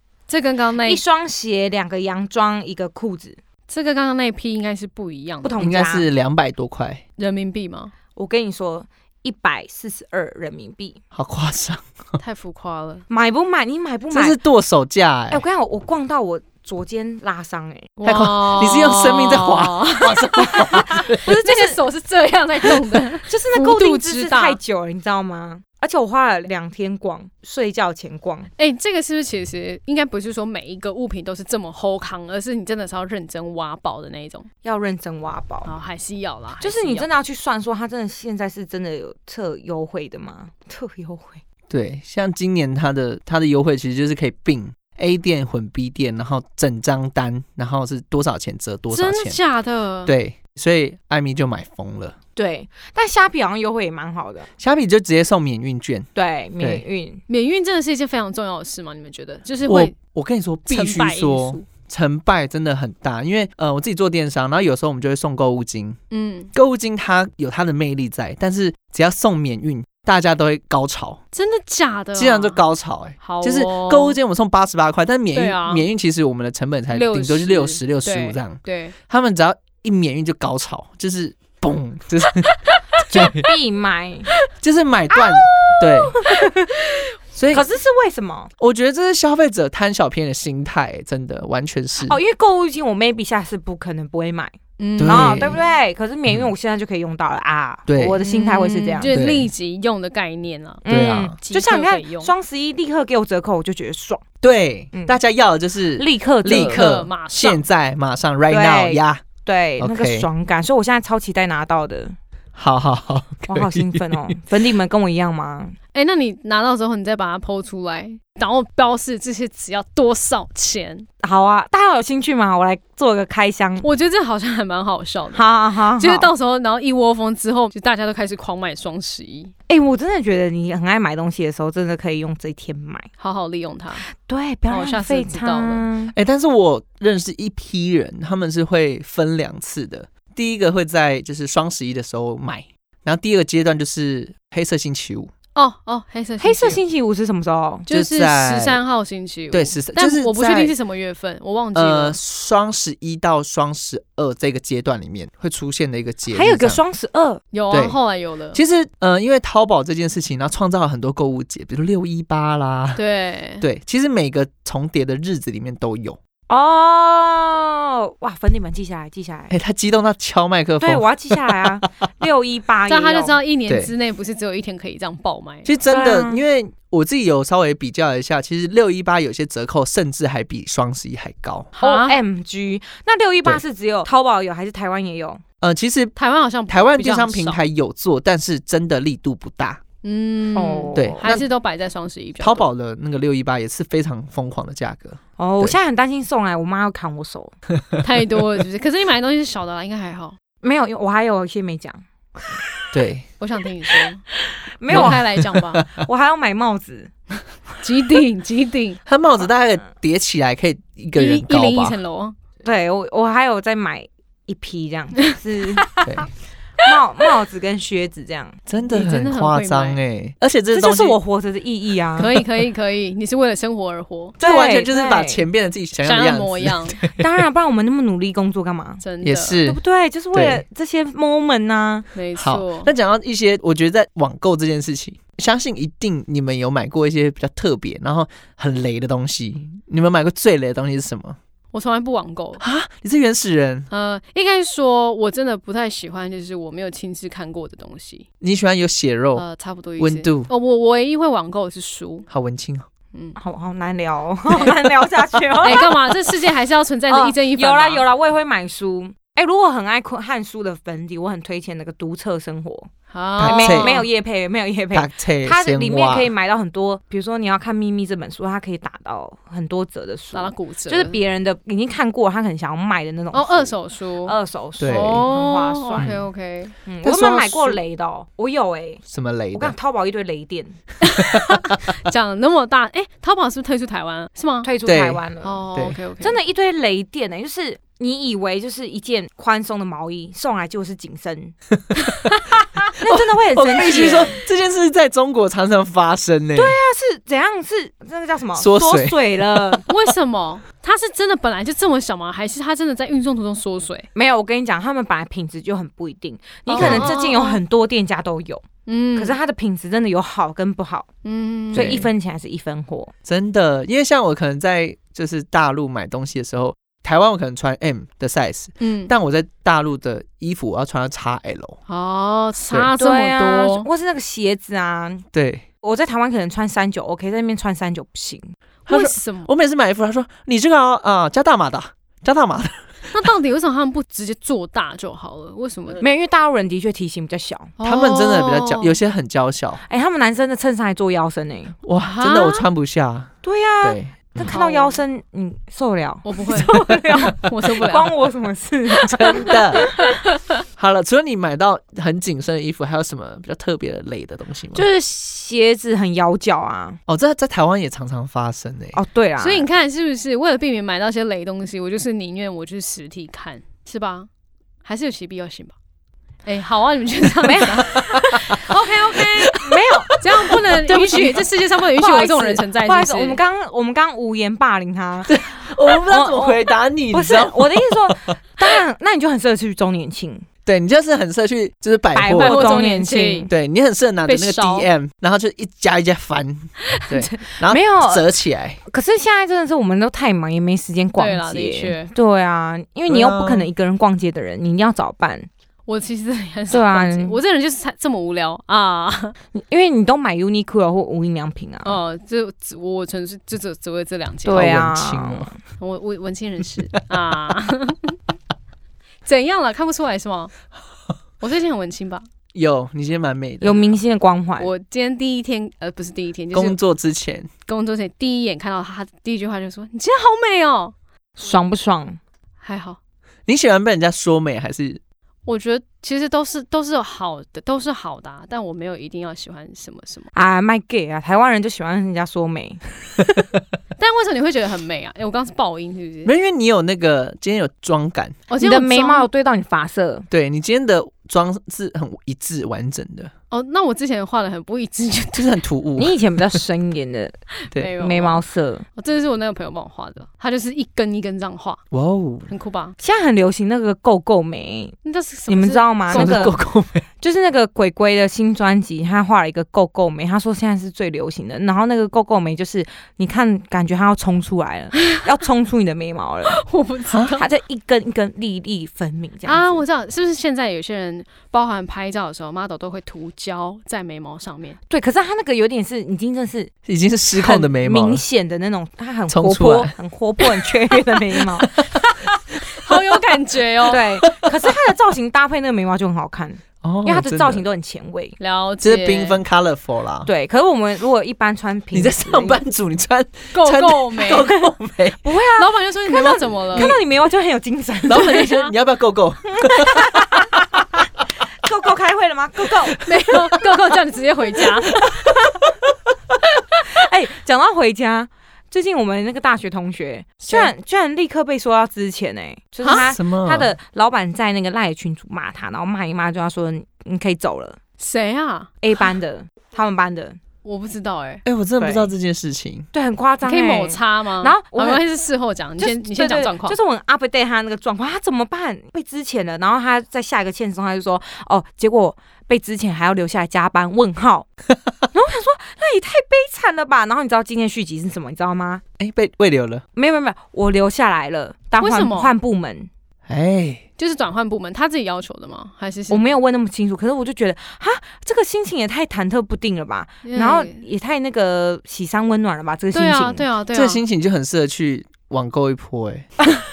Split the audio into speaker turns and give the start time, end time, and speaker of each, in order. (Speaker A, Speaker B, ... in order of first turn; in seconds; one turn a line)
Speaker A: 0.3-1.0
Speaker B: 0.8-3.4
Speaker A: 3.7-5.6
Speaker B: 5.4-6.0
Speaker C: 5.6-7.0
Speaker A: 7.2-7.9
Speaker B: 8.2-11.0
Speaker C: 11.1-12.2
Speaker A: 12.2-13.1
Speaker B: 13.1-14.4
Speaker C: 14.1-15.4
Speaker B: 15.3-17.9
Speaker C: 18.0-21.2
Speaker A: 18.0-24.6
Speaker B: 20.9-21.8
Speaker B: 23.2-28.5
Speaker A: 28.6-34.5
Speaker B: 34.6-35.7
Speaker A: 35.6-37.1
Speaker B: 36.6-41.4
Speaker C: 41.7-49.4
Speaker A: 48.9-50.1
Speaker C: 50.0-52.1
Speaker B: 52.4-54.5
Speaker C: 54.6-56.1
Speaker B: 56.1-57.2
Speaker A: 57.3-59.9
Speaker C: 59.6-66.0
Speaker A: 60.7-61.6
Speaker A: 66.1-66.5
Speaker C: 66.5-71.2
Speaker A: 71.3-72.6
Speaker C: 72.1-83.5
Speaker A: 73.2-74.2
Speaker A: 75.3-75.8
Speaker A: 76.9-78.9
Speaker A: 82.7-83.2
Speaker B: 83.1-84.3
Speaker C: 84.6-86.2
Speaker B: 85.6-86.8
Speaker C: 87.3-87.6
Speaker B: 87.5-88.5
Speaker C: 88.6-92.2
Speaker B: 92.0-99.1
Speaker A: 94.8-95.5
Speaker C: 95.0-95.6
Speaker C: 97.9-98.2
Speaker A: 98.2-100.8
Speaker C: 99.1-99.5
Speaker B: 100.8-104.2
Speaker C: 100.9-101.4
Speaker A: 101.4-102.3
Speaker C: 104.4-109.2
Speaker B: 104.9-105.2
Speaker B: 106.0-106.8
Speaker A: 106.5-107.6
Speaker B: 108.5-112.2
Speaker C: 109.8-110.3
Speaker C: 112.5-114.3
Speaker B: 113.5-115.8
Speaker A: 115.9-121.1
Speaker B: 121.2-123.8
Speaker A: 123.8-125.4
Speaker B: 125.3-126.3
Speaker A: 126.0-129.5
Speaker B: 129.7-133.1
Speaker A: 133.2-134.1
Speaker B: 134.0-136.1
Speaker A: 134.7-135.8
Speaker C: 136.1-145.3
Speaker A: 145.5-146.8
Speaker B: 146.4-147.9
Speaker A: 147.9-152.2
Speaker C: 147.9-148.8
Speaker C: 149.5-150.7
Speaker C: 151.7-156.8
Speaker B: 156.3-157.4
Speaker A: 157.5-158.6
Speaker C: 157.7-158.0
Speaker C: 158.5-163.0
Speaker A: 162.9-163.6
Speaker C: 163.6-166.2
Speaker B: 166.5-169.5
Speaker C: 169.5-171.7
Speaker B: 170.8-173.4
Speaker A: 172.9-175.7
Speaker C: 175.6-181.7
Speaker B: 175.9-176.4
Speaker B: 181.8-185.4
Speaker A: 181.8-182.2
Speaker C: 185.6-186.1
Speaker A: 186.2-187.6
Speaker C: 186.7-189.8
Speaker A: 190.0-192.7
Speaker B: 190.5-191.3
Speaker C: 190.9-191.5
Speaker C: 192.4-195.8
Speaker B: 195.4-197.5
Speaker A: 198.0-200.4
Speaker B: 200.6-202.7
Speaker C: 202.9-203.2
Speaker A: 203.4-204.2
Speaker B: 204.4-205.3
Speaker A: 204.9-205.8
Speaker C: 204.9-206.0
Speaker B: 205.9-207.1
Speaker A: 207.8-209.0
Speaker C: 209.1-212.0
Speaker A: 211.1-212.3
Speaker B: 212.6-216.0
Speaker B: 216.8-218.6
Speaker C: 218.7-221.2
Speaker A: 218.9-220.0
Speaker B: 220.7-222.3
Speaker A: 222.2-224.3
Speaker C: 224.4-227.3
Speaker B: 224.4-225.4
Speaker A: 226.0-227.0
Speaker B: 227.1-229.0
Speaker A: 229.0-229.6
Speaker C: 229.2-229.8
Speaker B: 229.6-232.1
Speaker C: 230.3-230.6
Speaker A: 232.1-232.9
Speaker C: 232.3-241.4
Speaker A: 241.7-242.6
Speaker C: 242.6-243.9
Speaker A: 243.9-248.2
Speaker C: 248.4-249.4
Speaker A: 249.3-252.3
Speaker C: 250.0-250.5
Speaker C: 252.3-252.9
Speaker A: 253.1-253.4
Speaker B: 253.4-256.0
Speaker A: 255.6-258.0
Speaker B: 257.1-262.9
Speaker A: 263.1-264.1
Speaker C: 263.4-264.1
Speaker B: 263.4-276.1
Speaker C: 264.9-266.3
Speaker A: 270.3-271.2
Speaker A: 273.3-276.7
Speaker C: 274.8-275.3
Speaker C: 276.0-276.2
Speaker B: 276.9-280.8
Speaker C: 277.0-277.8
Speaker C: 279.1-279.8
Speaker A: 281.0-284.7
Speaker C: 281.3-281.6
Speaker B: 284.6-285.6
Speaker C: 284.8-285.2
Speaker A: 285.4-286.4
Speaker B: 286.2-291.5
Speaker C: 291.9-292.3
Speaker B: 292.8-294.4
Speaker C: 293.0-296.8
Speaker B: 296.5-299.8
Speaker C: 298.5-299.8
Speaker A: 299.9-304.1
Speaker B: 304.1-311.1
Speaker A: 306.7-307.6
Speaker C: 306.7-307.1
Speaker A: 308.9-309.3
Speaker A: 311.2-311.9
Speaker B: 311.7-313.1
Speaker C: 311.7-312.1
Speaker C: 313.2-321.8
Speaker A: 318.8-319.1
Speaker A: 321.9-323.9
Speaker B: 323.0-325.2
Speaker C: 325.3-325.6
Speaker B: 325.8-328.5
Speaker C: 328.9-333.3
Speaker A: 328.9-329.5
Speaker A: 333.1-336.0
Speaker B: 336.0-337.7
Speaker A: 337.8-338.9
Speaker C: 337.8-339.8
Speaker B: 339.9-341.8
Speaker C: 341.8-344.5
Speaker A: 342.0-342.6
Speaker B: 343.4-350.0
Speaker A: 344.5-345.0
Speaker A: 346.2-348.1
Speaker C: 349.1-349.9
Speaker A: 349.4-350.4
Speaker C: 350.8-354.9
Speaker B: 354.7-357.0
Speaker C: 357.1-359.0
Speaker B: 358.9-359.7
Speaker A: 359.4-364.3
Speaker A: 364.8-365.7
Speaker A: 366.4-373.4
Speaker B: 367.4-368.0
Speaker B: 369.5-370.2
Speaker B: 370.7-380.4
Speaker C: 375.2-378.1
Speaker C: 380.6-382.7
Speaker B: 382.1-383.5
Speaker A: 382.4-383.5
Speaker C: 383.5-388.8
Speaker A: 384.2-384.9
Speaker A: 386.9-387.4
Speaker B: 387.6-388.3
Speaker B: 388.8-395.5
Speaker A: 391.2-392.1
Speaker C: 393.1-393.7
Speaker A: 395.9-399.4
Speaker B: 396.7-397.4
Speaker B: 399.5-402.0
Speaker A: 401.8-404.7
Speaker B: 404.4-405.6
Speaker C: 404.5-405.5
Speaker A: 405.8-408.2
Speaker A: 409.2-410.5
Speaker A: 411.4-412.2
Speaker C: 412.5-413.9
Speaker B: 413.6-414.7
Speaker A: 414.6-416.8
Speaker C: 416.5-417.5
Speaker A: 417.7-420.9
Speaker B: 421.4-422.2
Speaker A: 422.6-423.0
Speaker C: 423.5-425.0
Speaker A: 425.4-430.3
Speaker B: 430.3-433.2
Speaker A: 434.0-436.3
Speaker C: 436.2-438.4
Speaker A: 438.5-439.3
Speaker B: 438.6-440.2
Speaker C: 440.3-443.3
Speaker A: 443.5-445.6
Speaker C: 445.3-446.5
Speaker B: 446.0-447.4
Speaker A: 447.6-448.4
Speaker B: 448.0-448.9
Speaker A: 448.9-451.8
Speaker C: 451.9-452.5
Speaker A: 452.5-452.9
Speaker B: 453.0-455.0
Speaker A: 455.0-456.6
Speaker B: 455.5-456.6
Speaker C: 456.1-457.1
Speaker B: 457.2-466.6
Speaker A: 466.5-467.4
Speaker C: 467.1-467.4
Speaker B: 467.4-469.8
Speaker A: 469.4-474.8
Speaker B: 474.9-476.7
Speaker C: 476.9-478.2
Speaker B: 477.3-481.8
Speaker C: 479.3-479.9
Speaker A: 482.7-484.0
Speaker B: 483.9-488.4
Speaker C: 484.2-484.7
Speaker C: 486.8-487.6
Speaker A: 488.4-489.4
Speaker C: 488.8-490.3
Speaker B: 490.2-492.6
Speaker C: 491.9-495.2
Speaker A: 493.5-494.5
Speaker B: 494.3-494.6
Speaker B: 495.2-498.3
Speaker A: 495.6-496.9
Speaker C: 498.1-500.4
Speaker A: 498.1-498.7
Speaker B: 499.6-500.6
Speaker B: 501.6-503.0
Speaker A: 503.0-505.0
Speaker B: 504.9-505.6
Speaker B: 506.8-517.8
Speaker C: 512.9-513.7
Speaker A: 518.0-518.7
Speaker B: 518.8-520.4
Speaker A: 520.6-521.4
Speaker C: 521.4-522.9
Speaker B: 521.8-522.1
Speaker B: 522.9-525.0
Speaker A: 523.4-526.8
Speaker B: 525.8-534.5
Speaker B: 535.1-538.8
Speaker C: 539.0-539.8
Speaker B: 540.0-542.9
Speaker A: 541.8-542.3
Speaker C: 543.3-543.8
Speaker A: 544.0-546.2
Speaker B: 546.1-553.5
Speaker A: 550.2-550.8
Speaker A: 552.9-554.0
Speaker C: 553.7-556.3